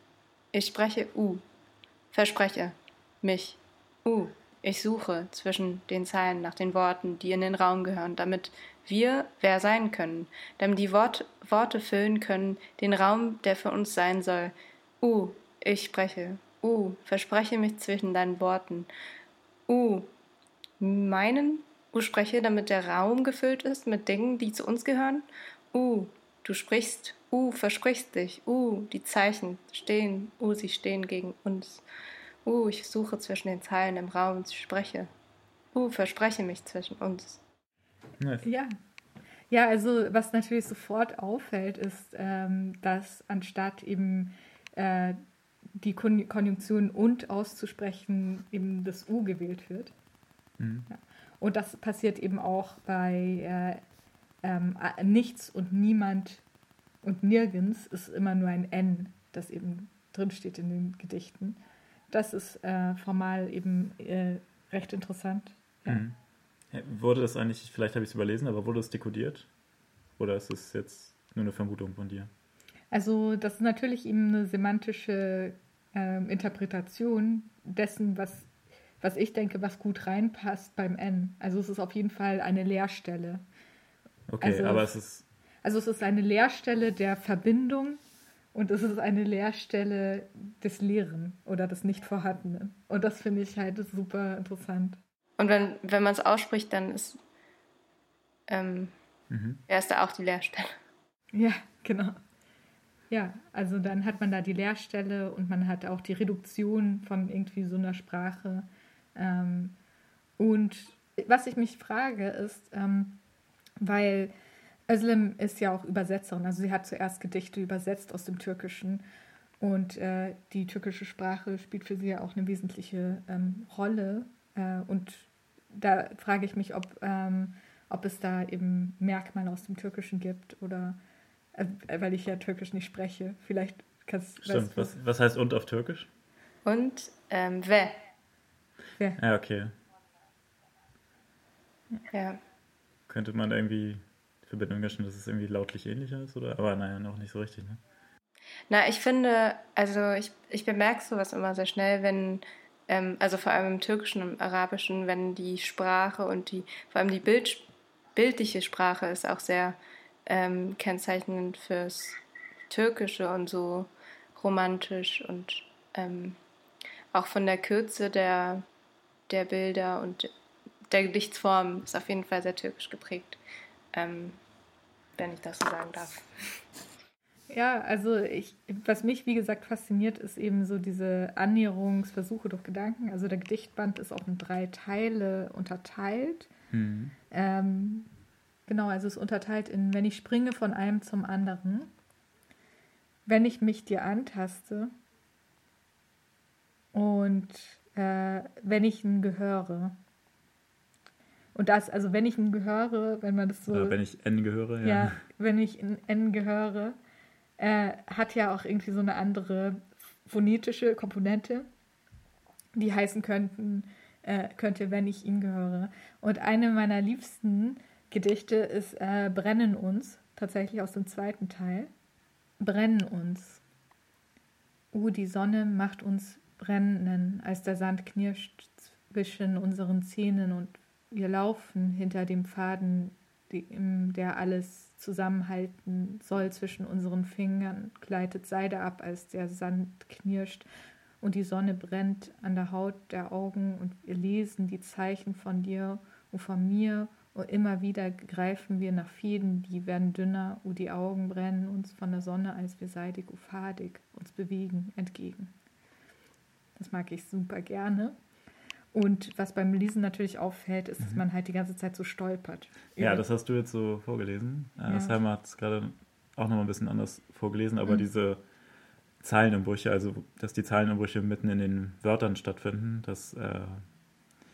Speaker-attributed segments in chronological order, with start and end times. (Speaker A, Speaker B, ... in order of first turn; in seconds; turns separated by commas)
Speaker A: 0.5-1.4, Speaker A: 2.1-18.9, Speaker A: 19.7-20.1, Speaker A: 20.8-31.8, Speaker A: 32.5-35.1, Speaker A: 35.7-37.4, Speaker B: 38.2-38.5, Speaker C: 38.4-38.7, Speaker C: 39.5-45.2, Speaker C: 45.8-50.0, Speaker B: 50.6-50.9, Speaker C: 50.9-53.8, Speaker C: 54.4-56.4, Speaker C: 57.0-61.6, Speaker C: 62.1-66.0, Speaker B: 65.9-66.2, Speaker B: 66.7-69.5, Speaker B: 70.2-72.3, Speaker C: 72.9-78.5, Speaker C: 79.0-83.4, Speaker B: 84.3-85.2, Speaker C: 84.4-84.9, Speaker C: 85.6-88.0, Speaker C: 88.5-95.0, Speaker A: 95.4-97.2, Speaker A: 98.5-98.9, Speaker B: 99.3-99.6, Speaker A: 99.7-100.7, Speaker C: 101.3-102.2, Speaker C: 103.1-109.8, Speaker C: 110.4-113.2, Speaker C: 113.8-114.3, Speaker C: 114.9-119.0, Speaker C: 119.6-131.0, Speaker C: 131.6-135.0, Speaker B: 134.4-136.1, Speaker A: 136.7-138.0, Speaker B: 139.2-139.7, Speaker A: 142.1-142.4, Speaker B: 143.1-147.8, Speaker A: 148.7-166.4, Speaker A: 167.1-168.6, Speaker A: 169.3-170.3, Speaker A: 170.9-173.4, Speaker A: 173.9-174.4, Speaker A: 175.2-176.3, Speaker C: 177.5-186.5, Speaker B: 186.7-187.2, Speaker C: 187.3-188.1, Speaker C: 188.7-191.9, Speaker C: 193.3-194.9, Speaker C: 196.9-200.0, Speaker C: 201.5-204.0, Speaker B: 203.7-205.2, Speaker C: 204.8-207.0, Speaker C: 207.6-211.7, Speaker C: 212.8-221.9, Speaker C: 222.6-223.6, Speaker C: 224.9-240.7, Speaker C: 241.2-255.5, Speaker C: 256.8-258.2, Speaker C: 258.9-263.2, Speaker B: 263.0-268.4, Speaker C: 264.8-265.2, Speaker B: 269.2-273.8